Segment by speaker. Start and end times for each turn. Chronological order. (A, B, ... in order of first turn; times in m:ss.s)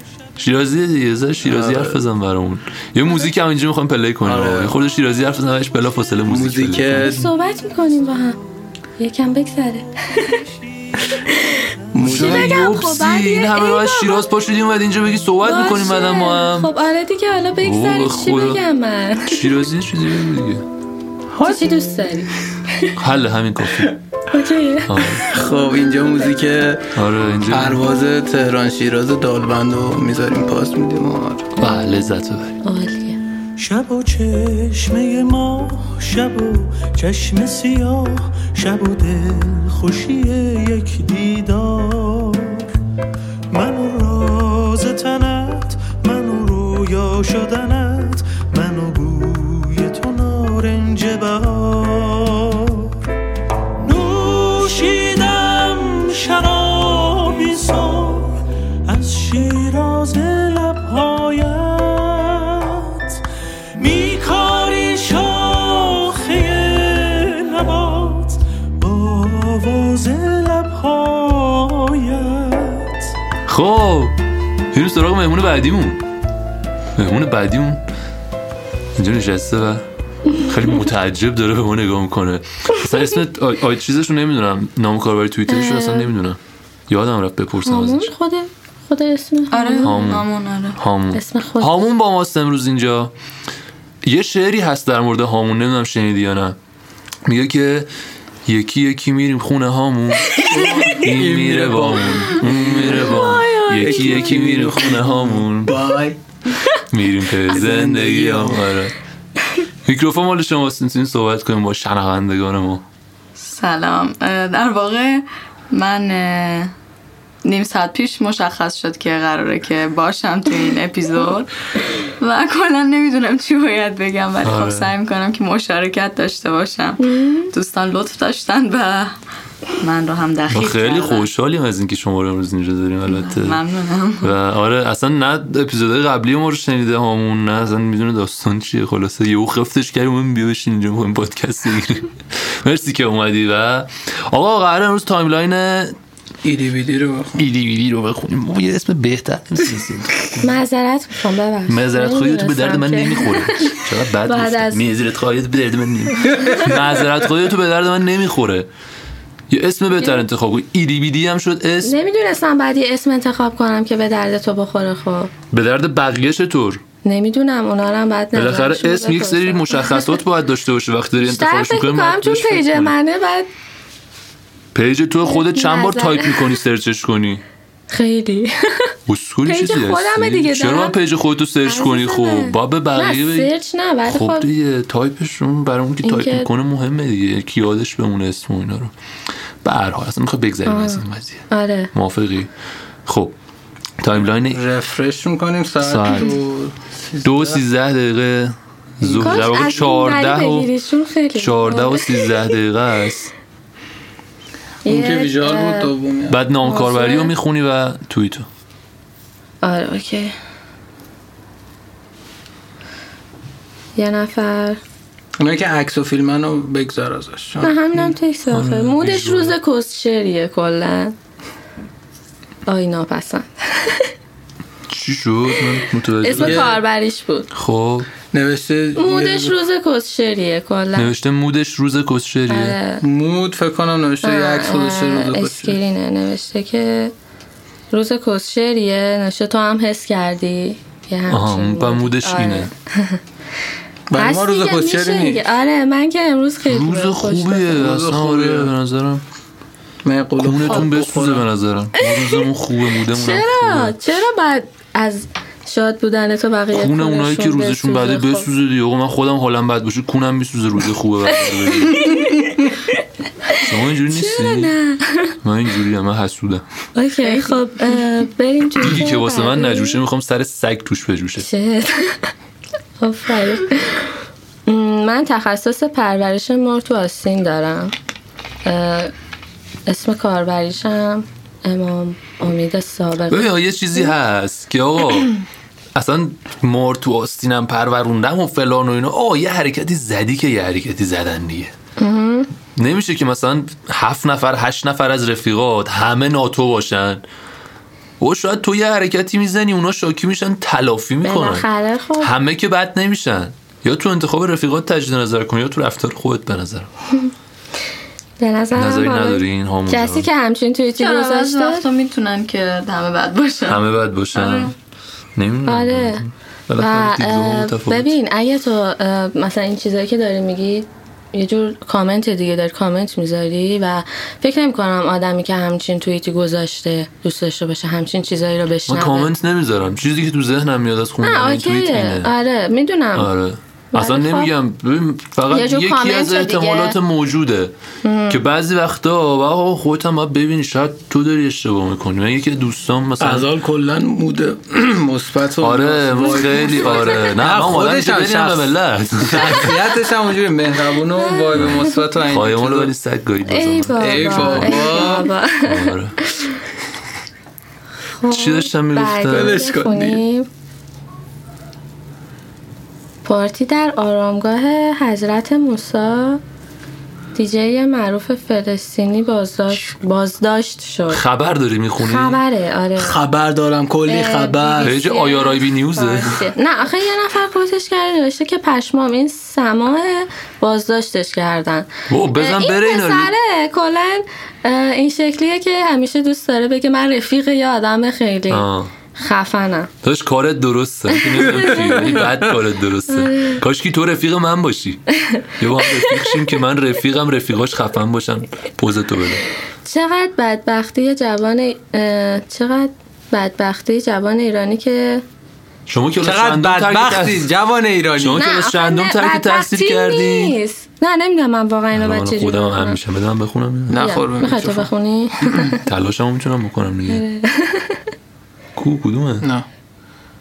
0:00.4-0:07.3 A
0:01.4-0:02.0 B
0:04.2-0:04.8 B
0:06.3-0:07.3 B
0:07.0-0:08.4 C
0:09.0-0:10.4 C
0:11.1-0:14.2 C
0:11.9-0:12.8 B
0:12.0-0:16.7 A
0:15.4-0:19.5 C
0:17.6-0:18.6 A
0:19.2-0:20.6 A
0:21.3-0:22.0 B
0:21.4-0:22.9 C
0:23.0-0:24.0 A
0:24.3-0:25.0 C
0:24.8-0:25.3 A
0:25.2-0:26.9 B
0:26.9-0:27.8 A
0:27.4-0:31.5 B
0:31.6-0:32.6 A
0:32.6-0:33.2 C
0:33.6-0:42.6 D
0:43.5-0:52.9 D
0:53.8-1:03.2 D
1:03.8-1:13.1 D
1:13.5-1:14.2 A
1:14.7-1:16.0 A
1:17.0-1:17.8 A
1:19.0-1:19.8 A
1:20.4-1:28.1 A
1:25.5-1:26.1 C
1:27.6-1:30.1 C
1:29.5-1:30.8 E
1:29.8-1:33.1 A
1:31.1-1:31.9 C
1:34.0-1:36.6 A
1:37.2-1:37.9 A
1:38.4-1:45.8 A
1:40.3-1:46.2 B
1:42.9-1:44.4 C
1:46.9-1:48.9 A
1:47.5-1:48.7 B
1:49.8-1:52.8 A
1:53.4-1:56.7 E
1:57.4-2:01.5 E
2:02.2-2:09.1 E
2:04.4-2:04.9 A
2:07.0-2:07.5 C
2:09.7-2:11.3 E
2:10.5-2:13.6 A
2:13.1-2:14.3 E
2:14.2-2:25.9 A
2:26.4-2:27.4 B
2:27.4-2:30.5 A
2:30.4-2:34.8 C
2:31.7-2:38.7 A
2:39.5-2:41.9 A
2:41.8-2:45.3 C
2:45.5-2:46.8 A
2:47.0-2:50.2 C
2:48.3-2:52.9 A
2:51.2-2:53.5 C
2:54.7-2:57.4 A
2:55.2-2:56.5 C
2:57.9-2:58.9 C
2:59.1-3:03.5 A
2:59.4-3:01.0 C
3:01.6-3:04.5 C
3:04.1-3:08.9 A
3:06.0-3:06.5 C
3:09.6-3:12.5 A
3:10.6-3:11.9 C
3:13.0-3:13.3 A
3:14.0-3:14.6 A
3:14.3-3:17.6 B
3:15.8-3:16.4 A
3:17.2-3:20.7 A
3:19.0-3:19.7 B
3:19.1-3:22.4 C
3:21.3-3:23.3 A
3:24.8-3:25.9 C
3:24.8-3:26.4 B
3:26.3-3:28.5 A
3:26.6-3:27.3 C
3:29.6-3:30.3 C
3:34.0-3:34.8 C
3:35.4-3:38.1 B
3:37.6-3:41.1 C
3:38.5-3:39.6 A
3:42.6-3:44.1 C
3:44.9-3:46.8 A
3:46.2-3:47.5 C
3:46.4-3:46.8 B
3:47.5-3:48.1 A
3:48.3-3:49.6 B
3:49.0-3:51.1 C
3:50.9-3:52.8 A
3:52.5-3:53.0 C
3:53.0-3:55.8 B
3:54.2-3:57.1 C
3:57.9-4:03.2 C
4:01.3-4:02.7 A
4:04.1-4:05.4 B
4:04.2-4:07.8 C
4:06.7-4:09.2 A
4:07.8-4:08.7 B
4:10.0-4:11.4 B
4:10.4-4:13.9 A
4:13.1-4:18.5 C
4:16.7-4:22.0 A
4:21.8-4:22.8 C
4:23.5-4:25.3 C
4:23.6-4:24.7 A
4:25.4-4:26.6 A
4:26.9-4:30.0 C
4:27.2-4:27.9 E
4:28.8-4:31.4 A
4:31.4-4:32.3 C
4:33.0-4:34.1 C
4:34.6-4:37.9 C
4:38.6-4:39.1 C
4:39.8-4:44.1 C
4:43.3-4:45.3 A
4:45.9-4:51.7 A
4:52.0-4:52.5 C
4:52.8-4:57.2 A
4:58.2-5:01.7 A
5:01.2-5:02.3 C
5:02.2-5:06.9 A
5:08.4-5:11.8 C
5:08.7-5:10.3 A
5:11.0-5:14.7 E
5:13.7-5:14.7 A
5:15.4-5:18.1 A
5:15.6-5:16.2 C
5:16.8-5:29.3 C
5:28.9-5:32.3 A
5:31.2-5:33.3 C
5:33.1-5:37.7 A
5:33.9-5:34.5 C
5:35.5-5:37.0 C
5:38.0-5:38.4 C
5:38.3-5:43.5 A
5:43.2-5:52.9 B
5:45.6-5:49.7 A
5:51.2-5:51.8 C
5:51.5-5:55.1 A
5:53.5-5:56.6 C
5:54.0-5:55.3 B
5:55.6-5:56.2 A
5:58.2-6:00.5 C
5:58.3-5:59.6 A
5:59.3-6:00.2 B
6:03.2-6:06.4 C
6:07.3-6:11.2 C
6:11.1-6:12.4 A
6:12.0-6:13.2 C
6:13.0-6:15.0 B
6:14.1-6:29.9 C
6:14.8-6:16.4 A
6:22.1-6:23.3 A
6:28.5-6:28.9 A
6:30.0-6:35.0 A
6:31.1-6:32.2 C
6:33.1-6:33.6 C
6:35.6-6:39.4 A
6:39.8-6:45.2 C
6:45.9-6:47.5 A
6:46.2-6:48.4 B
6:48.2-6:50.6 A
6:48.4-6:53.0 C
6:51.9-6:54.1 A
6:53.9-6:54.9 B
6:54.0-6:55.8 C
6:55.8-6:57.2 A
6:57.1-6:58.0 C
6:58.8-6:59.4 A